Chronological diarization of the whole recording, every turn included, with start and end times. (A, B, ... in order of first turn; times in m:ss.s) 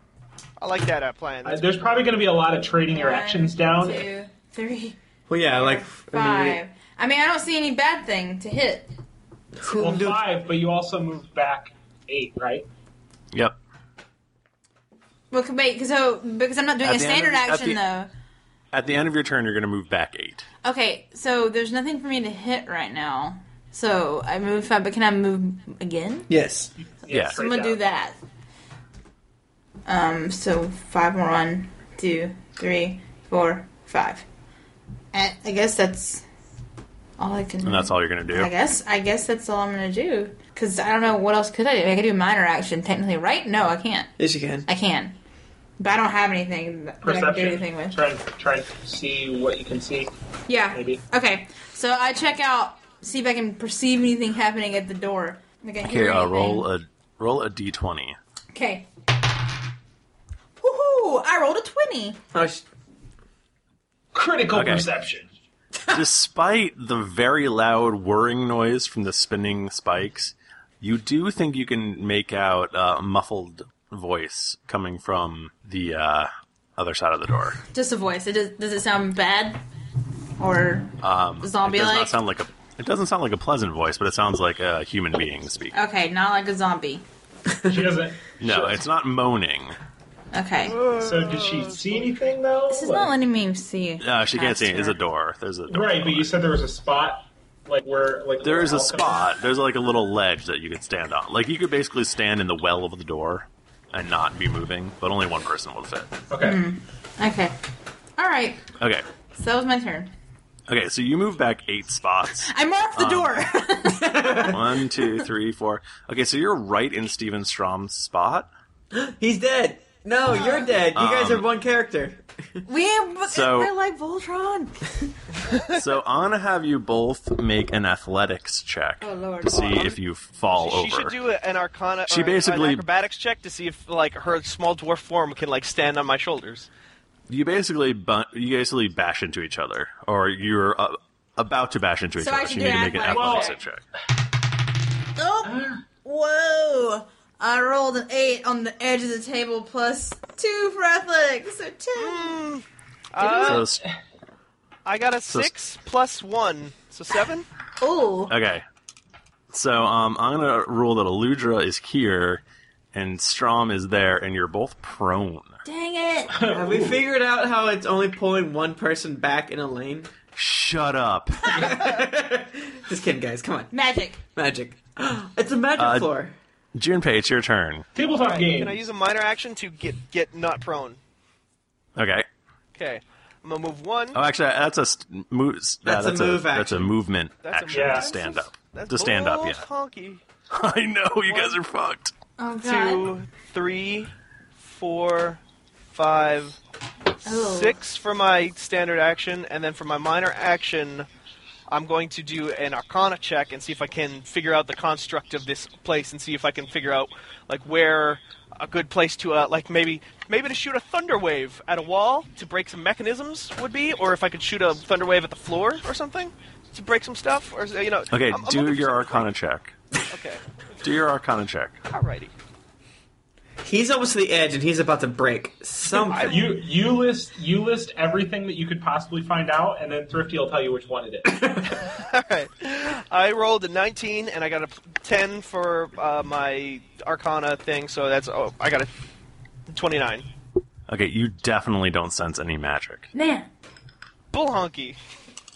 0:00.6-0:01.9 A
0:01.4-0:04.1 B
0:02.9-0:05.0 C
0:05.3-0:06.6 D
0:05.5-0:08.9 C
0:09.6-0:10.2 D
0:09.6-0:12.7 B
0:13.3-0:13.6 E
0:15.3-0:18.1 C
0:16.8-0:17.8 E
0:18.7-0:20.4 E
0:20.6-0:26.3 C
0:26.3-0:26.7 D
0:27.0-0:27.8 B
0:27.1-0:27.4 E
0:27.2-0:28.2 C
0:29.8-0:34.2 C
0:35.1-0:36.2 C
0:37.2-0:44.1 C
0:37.6-0:38.5 E
0:44.2-0:44.7 D
0:44.7-0:45.2 C
0:45.8-0:48.0 C
0:47.0-0:50.1 B
0:50.5-0:56.7 C
0:50.7-0:51.0 B
0:55.8-0:58.2 E
0:58.5-0:58.9 C
1:00.6-1:02.2 C
1:02.3-1:02.6 D
1:04.1-1:05.3 B
1:04.5-1:04.9 E
1:05.9-1:17.6 E
1:17.7-1:19.6 C
1:20.4-1:22.2 C
1:21.0-1:25.7 E
1:25.7-1:27.0 C
1:27.7-1:28.8 B
1:28.4-1:29.8 E
1:30.3-1:30.8 C
1:30.6-1:32.4 A
1:30.9-1:33.1 B
1:32.7-1:35.0 C
1:34.0-1:36.3 E
1:35.7-1:39.3 B
1:38.4-1:46.1 E
1:46.3-1:46.6 B
1:46.4-1:47.5 C
1:48.2-1:48.6 C
1:48.8-1:49.0 E
1:49.4-1:50.1 C
1:50.7-1:53.5 E
1:52.5-1:54.5 C
1:53.9-1:54.6 D
1:54.4-1:58.5 E
1:58.9-2:02.6 D
2:00.3-2:00.8 C
2:00.9-2:01.4 E
2:02.6-2:04.7 C
2:03.3-2:03.7 E
2:05.7-2:11.2 E
2:09.0-2:09.8 C
2:09.6-2:10.0 A
2:10.5-2:16.7 A
2:12.1-2:12.8 E
2:17.3-2:23.8 E
2:22.2-2:23.5 C
2:23.1-2:23.5 B
2:25.2-2:32.4 C
2:25.4-2:25.8 B
2:31.9-2:33.7 A
2:33.2-2:33.8 E
2:33.3-2:33.6 B
2:34.8-2:37.5 A
2:37.8-2:38.3 C
2:38.3-2:38.6 E
2:39.5-2:42.4 E
2:42.9-2:45.6 E
2:45.6-2:46.3 C
2:46.3-2:47.0 B
2:46.5-2:50.1 D
2:50.4-2:51.6 E
2:51.5-2:53.7 D
2:53.7-2:54.2 C
2:54.3-2:56.3 D
2:55.8-2:56.1 E
2:56.7-2:57.9 E
2:57.9-2:58.9 B
2:58.1-3:01.0 A
3:02.0-3:02.3 E
3:02.7-3:04.2 A
3:04.1-3:09.6 E
3:05.8-3:06.9 D
3:07.4-3:10.2 A
3:07.7-3:08.2 B
3:10.5-3:12.1 E
3:11.2-3:11.6 A
3:12.4-3:13.1 C
3:12.6-3:15.4 A
3:15.9-3:16.6 A
3:17.2-3:17.8 C
3:17.2-3:21.1 A
3:21.7-3:39.3 A
3:38.1-3:39.7 E
3:40.1-3:40.4 A
3:40.8-3:41.8 E
3:41.9-3:42.3 A
3:43.6-3:46.4 D
3:46.0-3:46.6 A
3:46.2-3:51.4 B
3:51.8-3:58.9 A
3:59.7-4:00.3 A
4:00.9-4:03.1 E
4:03.1-4:03.5 C
4:04.3-4:05.0 A